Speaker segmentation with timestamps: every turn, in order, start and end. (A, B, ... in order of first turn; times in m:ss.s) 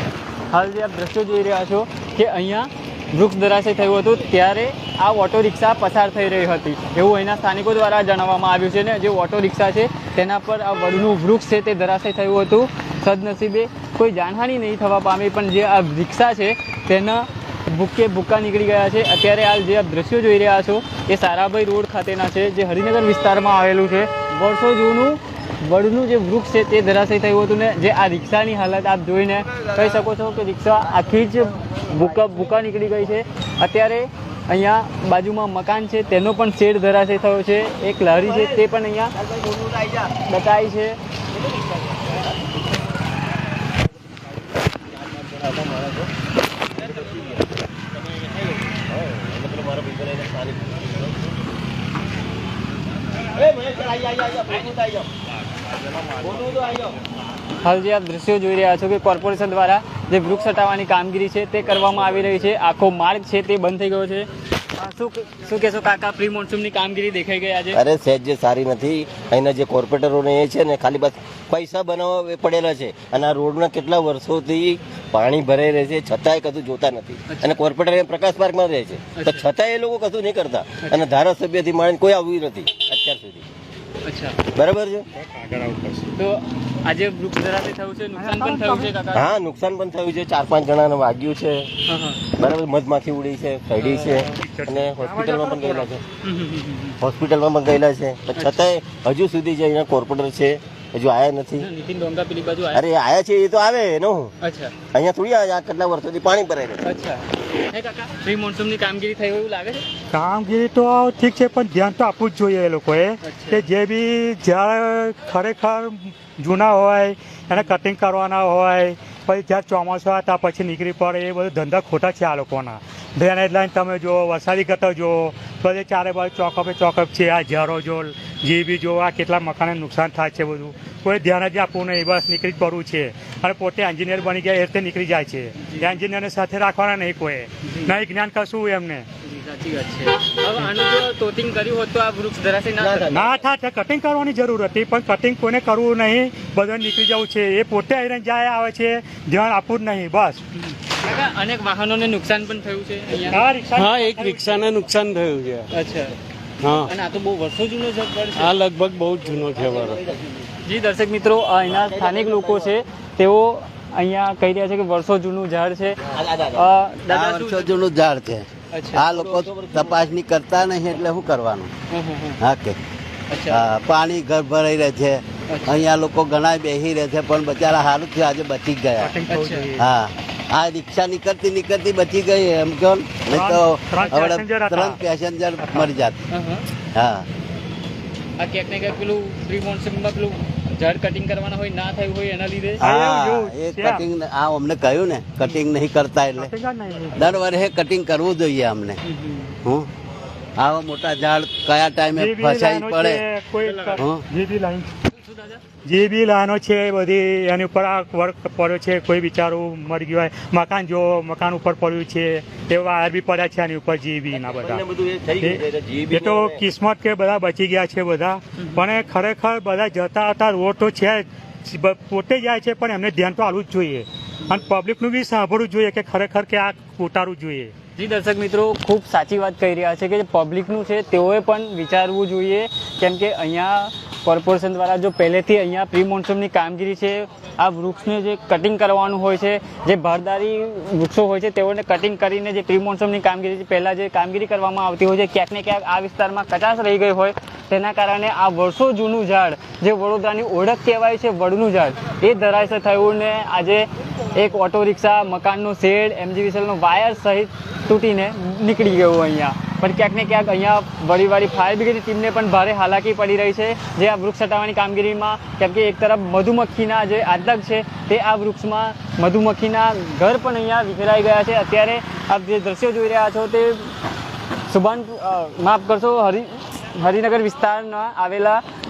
0:00.5-0:39.1 A
0:39.2-0:40.0 B
0:40.1-0:41.0 A
0:45.0-0:46.0 B
0:46.8-0:47.3 B
0:48.9-0:50.9 B
0:53.3-0:55.1 B
0:56.1-0:57.0 B
0:57.6-1:07.8 A
1:07.7-1:23.5 B
1:17.3-1:17.6 A
1:19.1-1:19.5 A
1:20.8-1:21.1 A
1:24.0-1:24.4 A
1:24.5-1:25.1 B
1:25.2-1:26.1 C
1:26.2-1:29.3 A
1:28.2-1:28.9 C
1:29.1-1:31.7 B
1:31.8-1:32.2 A
1:32.3-1:36.0 B
1:33.8-1:34.1 A
1:34.2-1:35.9 C
1:36.2-1:37.0 A
1:37.0-1:41.6 B
1:38.3-1:38.7 A
1:41.6-1:42.8 A
1:42.7-1:44.3 B
1:44.4-1:44.7 A
1:44.9-1:46.8 B
1:46.8-1:49.8 A
1:50.1-2:19.0 C
1:53.2-1:53.6 A
2:15.6-2:15.9 A
2:17.6-2:17.9 A
2:19.2-2:23.2 A
2:22.8-2:23.2 B
2:23.1-2:30.4 C
2:30.5-2:33.5 A
2:33.3-2:34.7 C
2:33.7-2:35.7 D
2:35.7-2:36.2 A
2:36.6-2:36.9 D
2:36.7-2:38.5 A
2:38.3-2:40.0 D
2:39.6-2:40.4 B
2:40.6-2:46.0 A
2:41.7-2:42.7 B
2:46.1-2:46.6 B
2:46.5-2:47.8 A
2:47.1-2:51.7 E
2:48.7-2:49.1 A
2:49.1-2:49.9 B
2:51.9-2:52.4 A
2:52.4-2:52.8 E
2:53.3-2:53.7 A
2:53.4-2:59.1 E
2:55.5-2:55.9 A
2:59.0-2:59.8 C
2:59.3-2:59.7 A
2:59.8-3:06.2 E
3:03.3-3:05.0 C
3:06.3-3:06.6 A
3:06.9-3:07.2 E
3:08.4-3:12.8 A
3:12.8-3:14.0 C
3:12.8-3:16.5 E
3:15.4-3:15.7 C
3:16.3-3:17.3 C
3:17.2-3:19.0 E
3:19.0-3:19.6 A
3:20.6-3:23.2 E
3:22.1-3:24.9 C
3:24.0-3:24.2 E
3:25.1-3:25.6 A
3:25.8-3:34.8 C
3:34.3-3:36.6 B
3:35.4-3:47.7 C
3:38.6-3:38.8 A
3:48.0-4:33.9 A
4:34.7-4:38.6 A